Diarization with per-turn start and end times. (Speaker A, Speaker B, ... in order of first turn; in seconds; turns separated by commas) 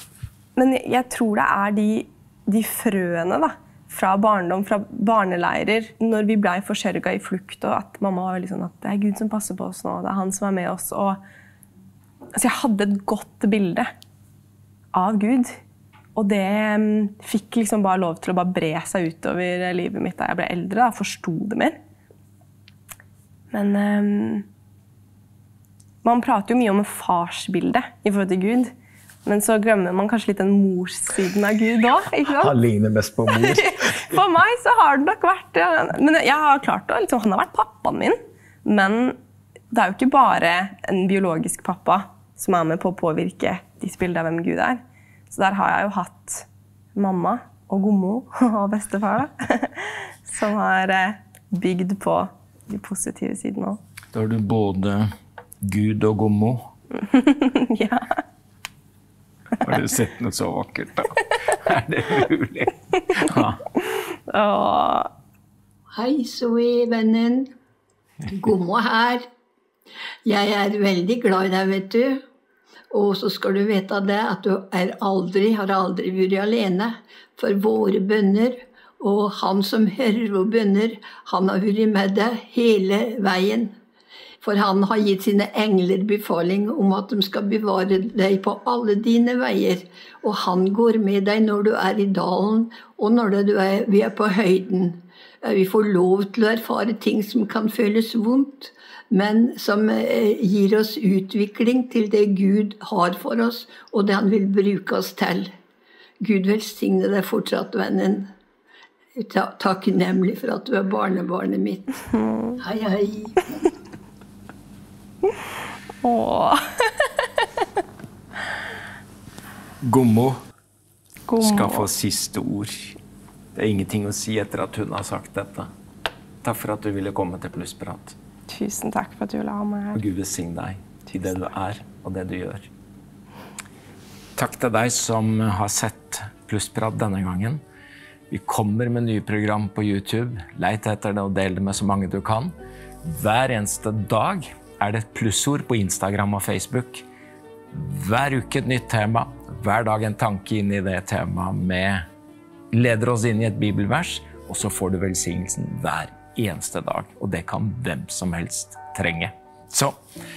Speaker A: 0.6-11.2, Speaker A: 12.3-13.9, Speaker A: 14.9-15.6, Speaker A: 16.1-21.8, Speaker A: 23.5-24.5, Speaker A: 26.0-28.7, Speaker A: 29.2-32.5, Speaker B: 32.4-34.0, Speaker A: 33.3-39.2, Speaker A: 39.7-53.8, Speaker B: 54.1-55.1, Speaker B: 55.6-56.7, Speaker A: 57.0-58.2, Speaker B: 59.6-63.6, Speaker A: 63.9-65.1, Speaker C: 66.0-67.5, Speaker C: 68.3-69.2, Speaker C: 70.2-72.2, Speaker C: 72.9-83.7, Speaker C: 84.4-105.5, Speaker C: 106.2-108.3, Speaker C: 109.2-111.9, Speaker A: 112.2-112.6, Speaker C: 112.6-113.7, Speaker A: 116.0-117.1, Speaker B: 119.8-120.4, Speaker A: 121.3-121.9, Speaker B: 121.4-123.0, Speaker B: 123.5-125.7, Speaker B: 126.4-128.2, Speaker A: 128.5-130.0, Speaker B: 129.9-132.7, Speaker B: 134.4-137.6, Speaker B: 138.3-142.5, Speaker B: 143.0-147.1, Speaker B: 147.7-152.1, Speaker B: 152.7-160.0